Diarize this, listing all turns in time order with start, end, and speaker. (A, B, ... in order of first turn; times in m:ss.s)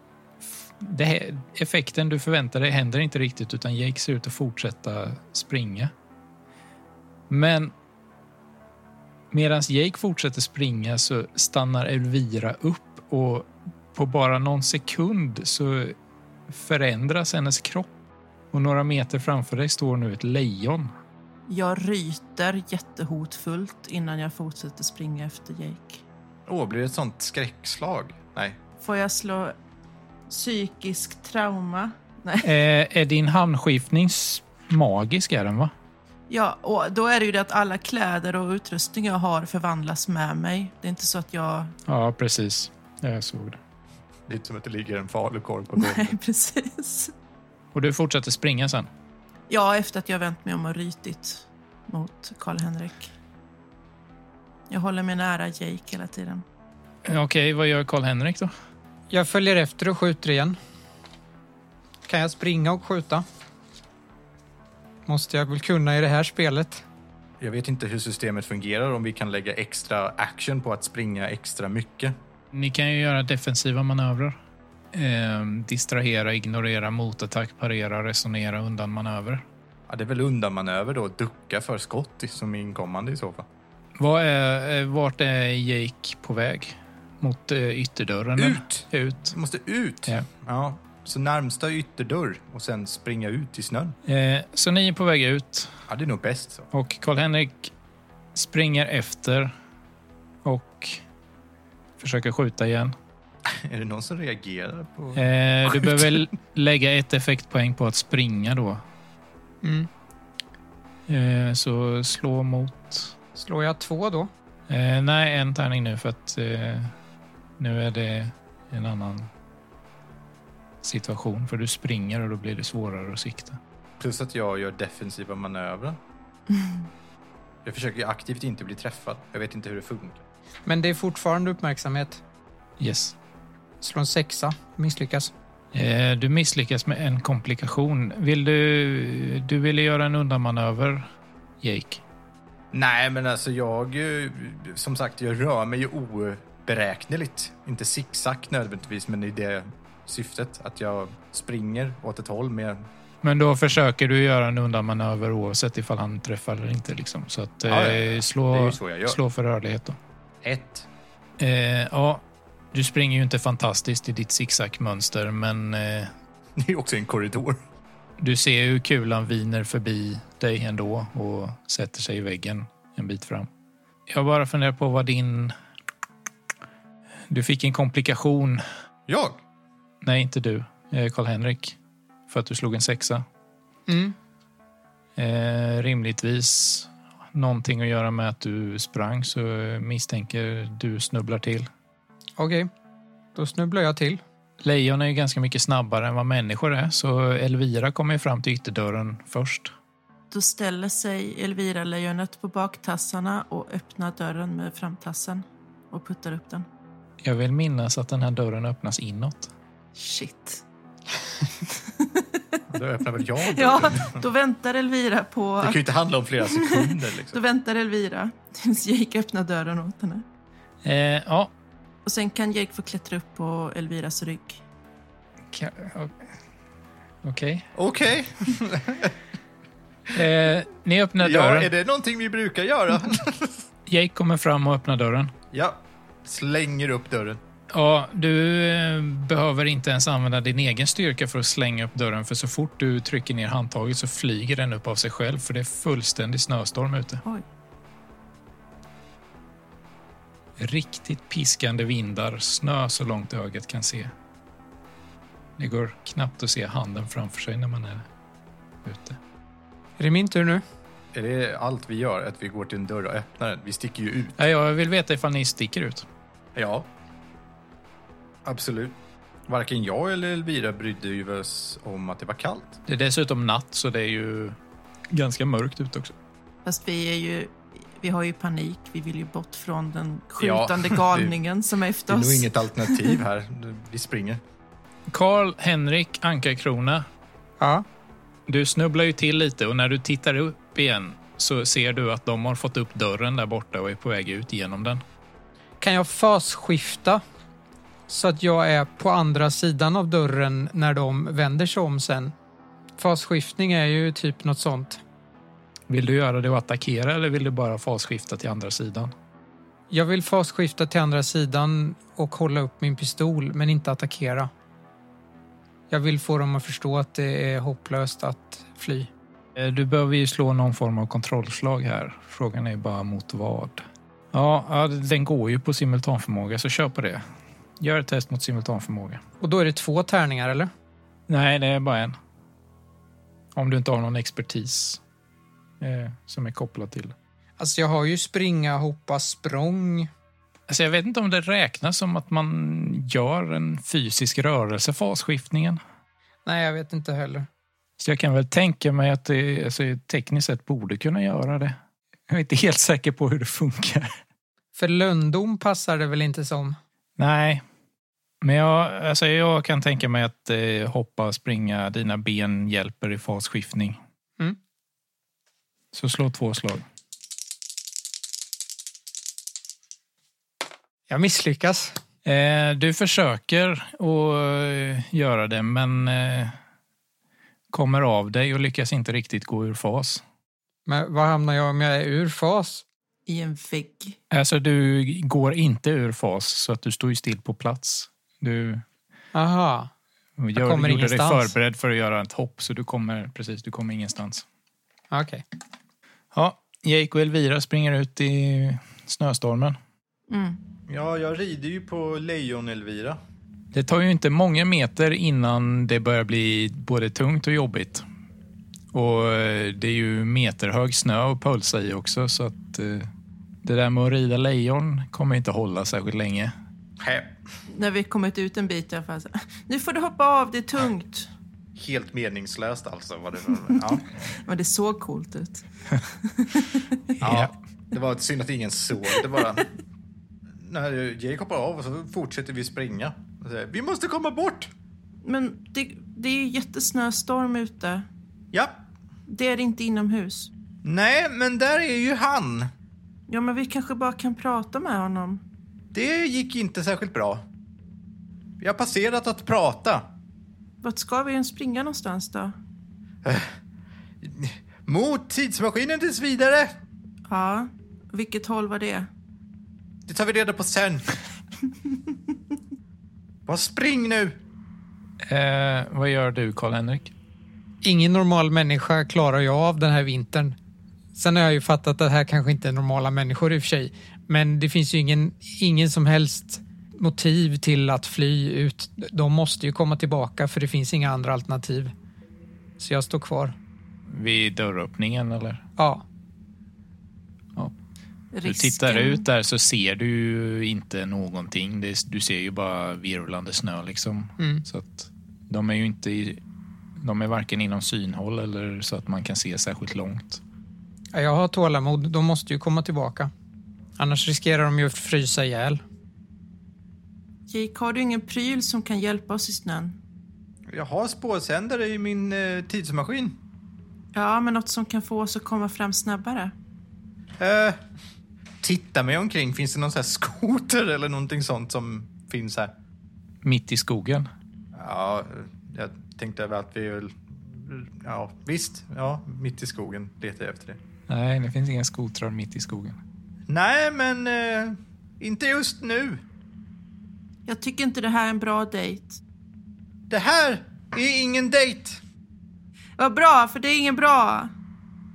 0:00.8-0:05.9 A
0:07.3-0:07.7 A
0:09.3-0:16.0 A
0:16.5-0:17.9 A
0:18.5-0:20.9 A
0:21.5-0:26.0 B
0:26.5-0:28.6 C
0:28.8-0:29.6 B
0:30.3-0:32.5 B
0:32.4-0:35.7 A
0:36.3-0:41.7 B
0:41.9-0:43.6 A
0:44.3-0:46.2 C
0:45.8-0:47.1 B
0:47.7-0:48.9 A
0:49.5-0:53.1 B
0:54.7-0:56.4 B
0:57.0-0:58.5 A
0:59.1-1:00.6 D
1:02.1-1:03.2 D
1:05.1-1:06.8 D
1:07.4-1:12.2 C
1:12.5-1:14.4 A
1:14.9-1:19.4 A
1:19.9-1:23.5 C
1:24.0-1:29.4 A
1:28.4-1:34.0 C
1:34.1-1:35.8 A
1:35.9-1:36.7 C
1:36.7-1:37.7 A
1:38.4-1:39.5 A
1:40.4-1:41.0 A
1:42.0-1:43.0 A
1:43.5-1:45.2 C
1:45.2-1:48.8 A
1:45.7-1:46.2 C
1:49.6-1:49.9 D
1:51.1-1:53.1 A
1:53.4-1:54.3 D
1:54.7-1:56.9 A
1:57.6-1:59.3 A
2:00.8-2:03.6 A
2:04.0-2:06.0 C
2:07.6-2:10.2 C
2:10.7-2:12.2 D
2:12.8-2:13.2 A
2:13.8-2:15.3 D
2:15.7-2:21.1 A
2:21.6-2:22.0 A
2:22.7-2:32.8 C
2:33.2-2:40.0 A
2:37.7-2:39.2 C
2:40.4-2:40.9 C
2:41.4-2:46.1 A
2:46.6-2:47.6 C
2:48.2-2:53.5 A
2:54.1-2:55.5 A
2:57.3-2:58.6 A
2:59.1-2:59.4 C
3:00.0-3:01.8 A
3:02.3-3:03.2 A
3:03.9-3:04.2 D
3:05.2-3:11.7 A
3:12.4-3:12.7 D
3:13.4-3:14.2 D
3:14.6-3:19.7 A
3:20.3-3:26.7 B
3:27.2-3:29.5 A
3:30.0-3:30.6 B
3:31.8-3:32.6 B
3:32.7-3:34.2 C
3:33.4-3:35.8 B
3:35.6-3:37.4 C
3:36.4-3:40.2 B
3:40.8-3:41.5 A
3:42.0-3:44.6 B
3:45.5-3:46.3 A
3:47.2-3:47.7 A
3:47.8-3:49.2 C
3:50.1-3:51.7 A
3:51.2-3:53.6 C
3:53.9-3:55.3 A
3:55.5-3:57.4 C
3:57.7-4:07.2 A
4:10.6-4:14.1 A
4:15.6-4:18.1 A
4:18.8-4:19.2 A
4:20.0-4:20.6 D
4:21.1-4:24.4 C
4:24.4-4:26.1 A
4:26.6-4:26.9 C
4:28.4-4:32.8 C
4:32.9-4:34.6 A
4:35.1-4:36.1 A
4:36.6-4:43.2 B
4:40.4-4:41.4 C
4:42.1-4:44.4 C
4:45.1-4:47.0 A
4:47.6-4:47.9 D
4:48.5-4:55.0 A
4:55.8-4:57.2 D
4:58.1-5:02.3 D
5:03.0-5:05.0 D
5:05.9-5:09.1 A
5:09.9-5:14.5 D
5:15.9-5:19.1 D
5:19.6-5:27.2 A
5:27.8-5:29.2 A
5:29.4-5:30.7 D
5:31.3-5:32.2 A
5:33.6-5:35.0 A
5:35.8-5:37.2 A
5:37.6-5:40.1 D
5:40.7-5:45.8 A
5:46.5-5:47.5 D
5:48.0-5:51.8 A
5:52.3-5:54.2 A
5:54.8-5:56.8 D
5:57.2-5:57.6 A
5:58.4-6:04.0 A
6:05.9-6:06.8 A
6:11.1-6:12.0 D
6:12.2-6:16.6 A
6:17.7-6:20.2 A
6:20.9-6:22.8 D
6:23.3-6:24.2 B
6:24.3-6:28.8 A
6:29.3-6:29.9 D
6:30.4-6:34.4 A
6:30.6-6:31.5 D
6:35.1-6:35.4 D
6:36.3-6:39.8 A
6:40.3-6:40.6 B
6:40.9-6:43.2 C
6:43.7-6:48.0 A
6:48.9-6:53.1 A
6:53.6-6:56.5 A
6:57.0-6:57.4 C
6:57.7-7:01.3 B
7:01.8-7:04.1 C
7:04.4-7:07.0 B
7:07.2-7:07.5 A
7:07.2-7:09.7 C
7:10.6-7:14.7 C
7:15.2-7:18.1 B
7:19.3-7:20.5 B
7:20.8-7:22.7 C
7:23.3-7:25.4 B
7:25.9-7:27.4 C
7:28.6-7:30.1 C
7:30.8-7:32.6 B
7:33.2-7:33.6 C
7:34.2-7:36.7 C
7:37.3-7:39.1 B
7:40.1-7:41.1 C
7:43.5-7:44.4 C
7:45.2-7:47.1 A
7:47.8-7:50.6 D
7:51.2-8:01.9 D
8:02.8-8:03.6 D
8:04.1-8:05.6 A
8:05.8-8:06.0 D
8:08.3-8:09.2 B
8:08.4-8:16.4 A
8:14.4-8:14.6 D
8:17.0-8:20.4 A
8:21.1-8:23.3 D
8:24.0-8:25.8 D
8:27.5-8:30.0 B
8:30.7-8:33.4 C
8:34.1-8:36.5 B
8:37.4-8:37.8 C
8:38.6-8:42.7 C
8:43.4-8:44.3 A
8:44.7-8:50.8 C
8:51.1-8:53.0 A
8:53.5-8:56.2 C
8:57.5-8:59.2 B
9:00.1-9:02.0 C
9:03.0-9:04.5 B